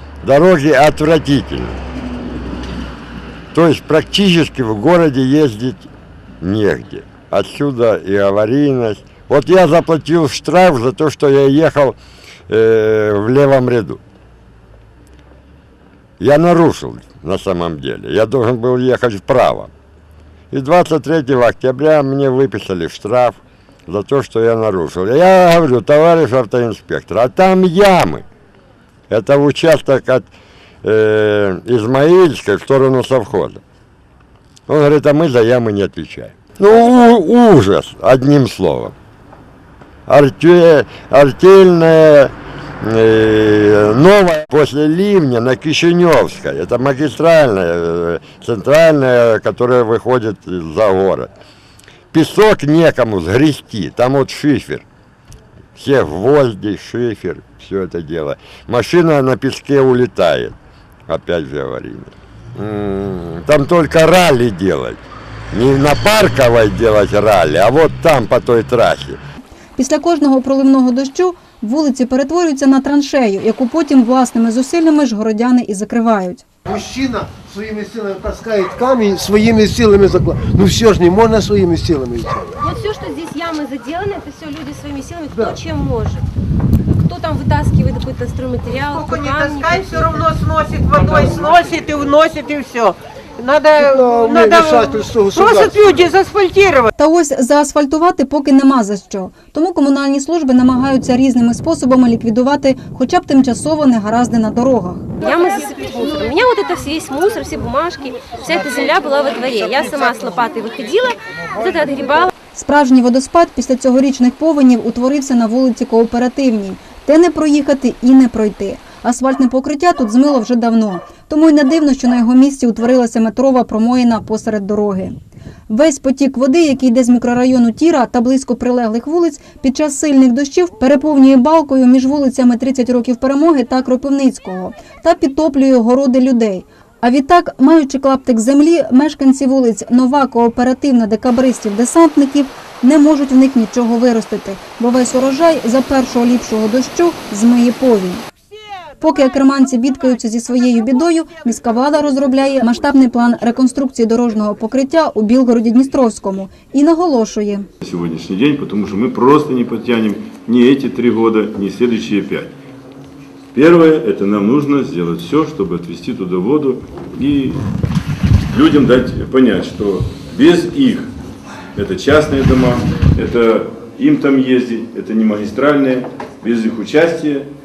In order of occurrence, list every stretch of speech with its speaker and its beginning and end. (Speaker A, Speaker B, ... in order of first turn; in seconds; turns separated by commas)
Speaker A: 0.2-1.8, Speaker A: 3.5-5.9, Speaker A: 6.4-12.0, Speaker A: 12.5-14.0, Speaker A: 16.2-19.7, Speaker A: 20.5-28.2, Speaker A: 29.1-30.3, Speaker A: 30.8-33.6, Speaker A: 34.7-38.9, Speaker A: 40.1-51.3, Speaker A: 52.1-54.9, Speaker A: 55.8-60.5, Speaker A: 61.1-65.0, Speaker A: 65.5-69.2, Speaker B: 69.8-76.5, Speaker C: 76.7-82.5, Speaker D: 82.6-86.2, Speaker D: 87.0-90.3, Speaker E: 88.9-96.9, Speaker C: 93.8-96.1, Speaker B: 97.0-105.1, Speaker D: 105.2-112.3, Speaker B: 112.5-125.2, Speaker B: 125.7-148.2, Speaker B: 149.0-157.7, Speaker F: 157.8-162.5, Speaker F: 163.5-167.6, Speaker F: 168.5-171.1, Speaker F: 171.8-177.5